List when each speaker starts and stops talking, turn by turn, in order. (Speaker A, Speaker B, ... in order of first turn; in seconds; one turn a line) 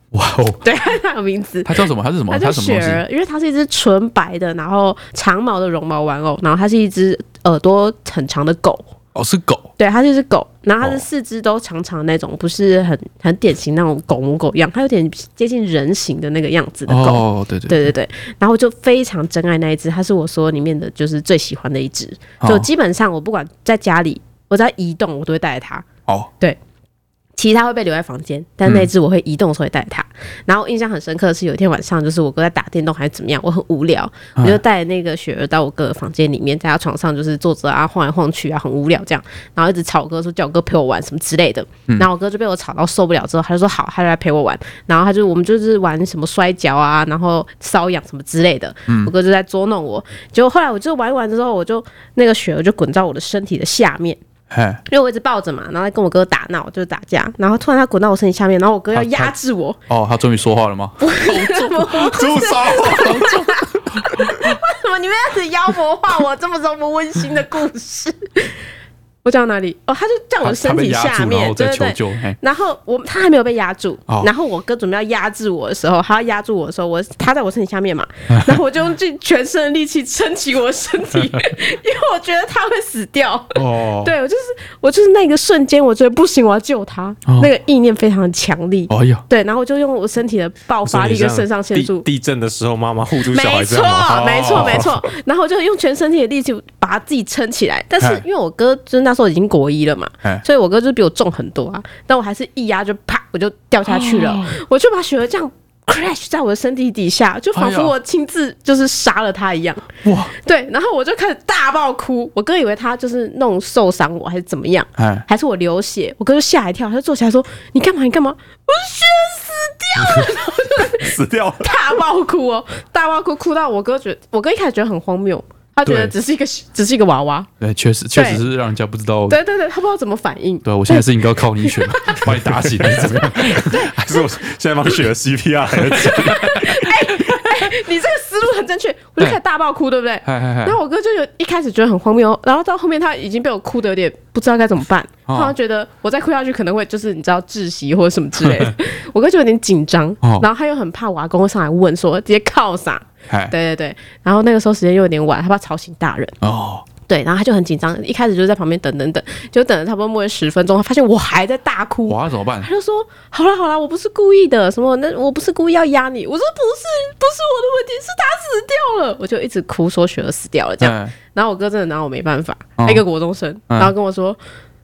Speaker A: 0.1-0.6
Speaker B: 0.6-8.8
Speaker A: 1.6-3.0
Speaker A: 9.1-9.7
Speaker B: 9.8-25.9
Speaker A: 16.9-17.9
Speaker A: 22.4-22.7
Speaker B: 27.4-54.2
Speaker A: 48.9-49.1
Speaker A: 54.5-54.8
Speaker B: 54.9-59.8
Speaker A: 58.9-59.3
Speaker A: 59.9-64.6
Speaker B: 61.0-68.6
Speaker C: 62.1-63.2
Speaker B: 69.2-92.1
Speaker A: 70.4-72.4
Speaker A: 78.3-78.6
Speaker A: 81.2-81.5
Speaker A: 83.5-84.1
Speaker A: 88.9-89.2
Speaker C: 90.8-95.0
Speaker B: 93.2-127.5
Speaker A: 94.1-94.9
Speaker A: 98.0-98.2
Speaker A: 103.9-104.6
Speaker A: 107.5-107.9
Speaker A: 110.0-110.3
Speaker A: 115.0-115.2
Speaker C: 120.9-121.7
Speaker A: 125.8-126.1
Speaker A: 127.6-129.4
Speaker B: 128.1-128.4
Speaker B: 129.3-132.3
Speaker A: 130.6-133.9
Speaker C: 132.8-136.6
Speaker B: 133.4-134.2
Speaker A: 135.8-137.7
Speaker B: 136.0-156.3
Speaker A: 140.2-140.8
Speaker A: 145.3-145.6
Speaker A: 148.4-148.7
Speaker A: 150.2-150.5
Speaker A: 153.3-153.6
Speaker A: 156.4-156.9
Speaker B: 157.1-174.4
Speaker A: 162.1-162.7
Speaker A: 170.8-171.2
Speaker A: 172.8-173.1